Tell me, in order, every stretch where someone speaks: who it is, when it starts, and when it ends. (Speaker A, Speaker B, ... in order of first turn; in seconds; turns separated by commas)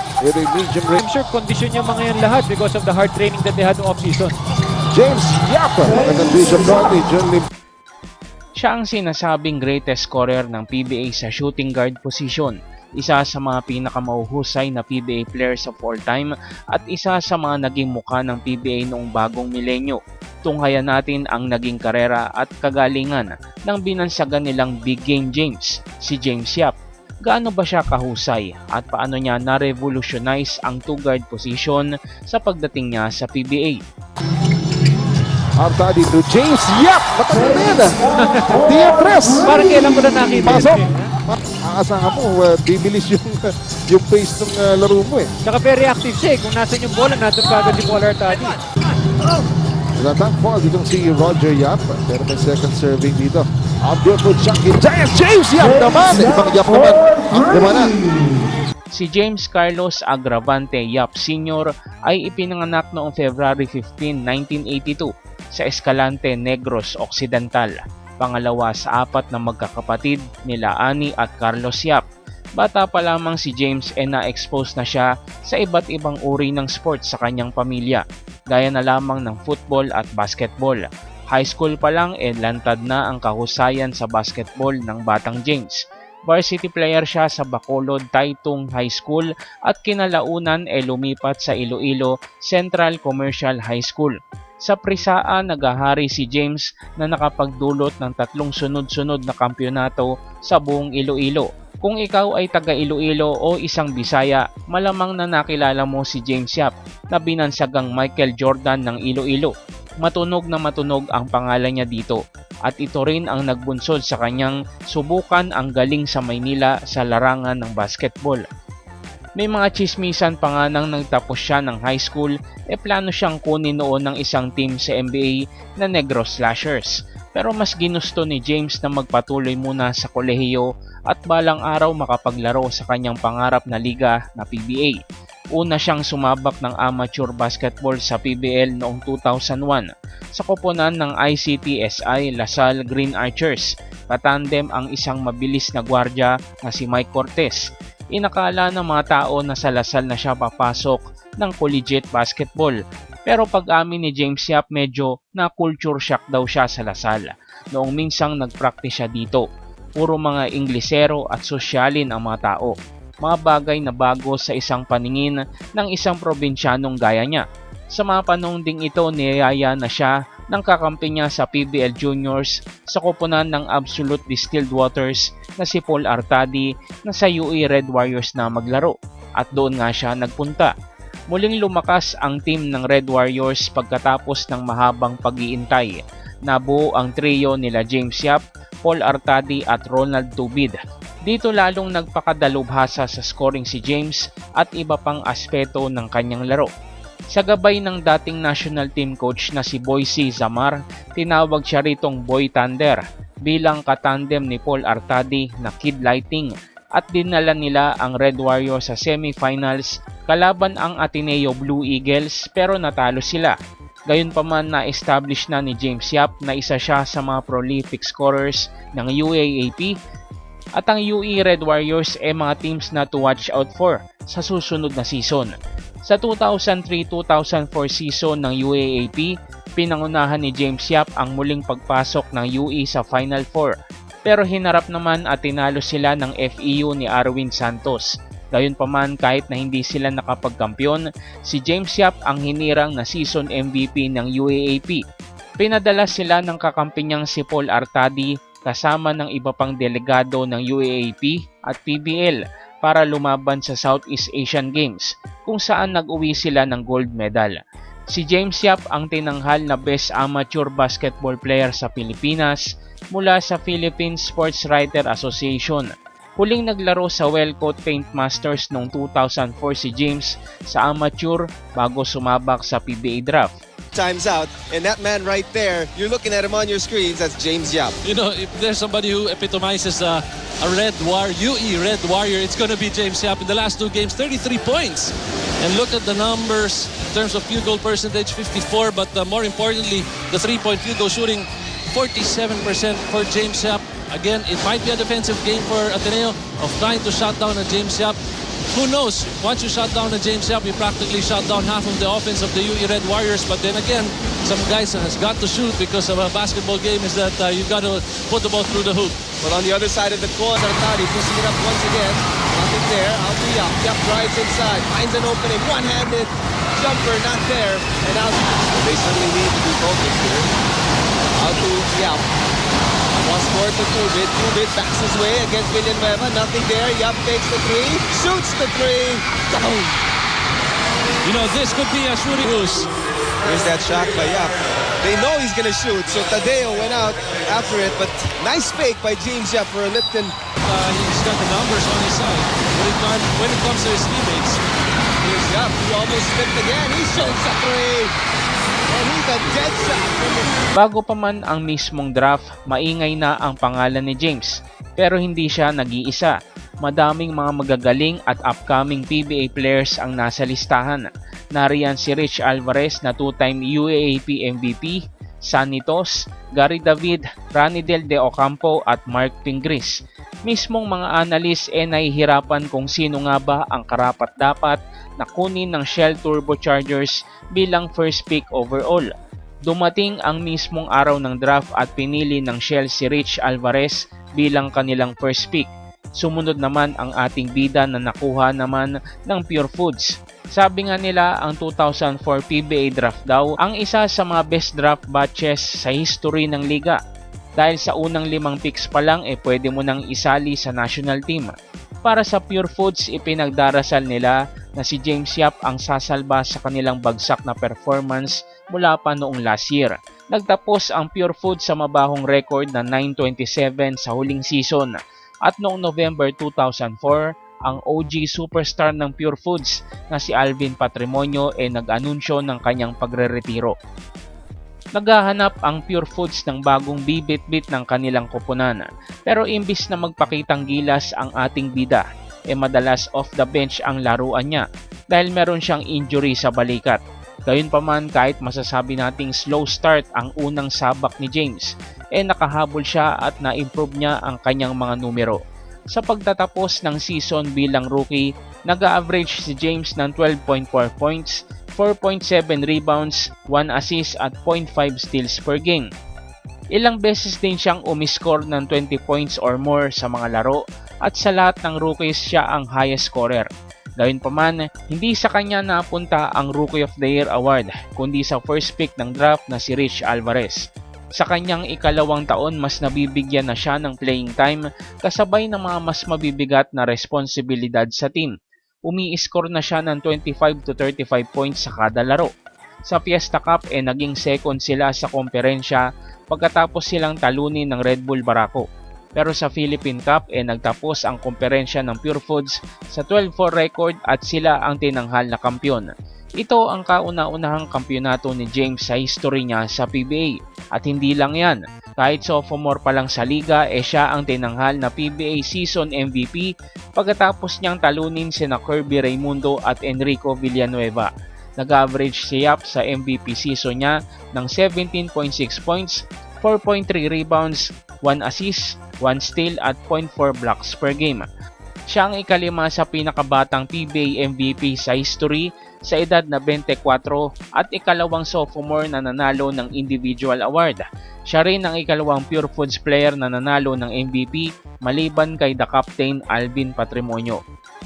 Speaker A: 0.2-1.0, Speaker B: 1.0-4.4, Speaker A: 4.9-7.5, Speaker C: 8.6-33.8, Speaker A: 35.6-38.0, Speaker B: 38.2-38.5, Speaker A: 38.5-39.5, Speaker B: 39.4-41.1, Speaker A: 40.5-45.3, Speaker B: 45.4-48.6, Speaker A: 50.0-58.0, Speaker C: 58.9-72.0, Speaker C: 72.6-118.5, Speaker C: 119.4-135.0, Speaker C: 135.6-159.4, Speaker C: 160.0-180.7, Speaker C: 181.3-196.7, Speaker C: 197.3-213.6, Speaker C: 214.1-219.9, Speaker C: 220.8-225.5, Speaker C: 226.1-233.7, Speaker C: 234.3-245.0, Speaker C: 245.6-257.6, Speaker C: 258.1-273.5, Speaker D: 273.9-278.0, Speaker E: 278.0-298.2, Speaker E: 298.7-309.2, Speaker D: 309.4-320.5, Speaker D: 321.4-322.3, Speaker D: 323.1-329.3, Speaker E: 329.5-330.0, Speaker E: 331.2-332.9, Speaker D: 333.4-340.4, Speaker E: 340.6-344.6, Speaker D: 345.2-348.1, Speaker D: 348.9-350.6, Speaker C: 350.8-356.3, Speaker C: 356.8-379.1, Speaker C: 379.7-397.0, Speaker C: 397.6-423.8, Speaker C: 425.0-445.4, Speaker C: 445.9-455.9, Speaker C: 456.7-463.5, Speaker C: 464.0-470.6, Speaker C: 471.2-478.4, Speaker C: 478.9-482.3, Speaker C: 482.9-488.6, Speaker C: 489.2-521.3, Speaker C: 521.9-537.4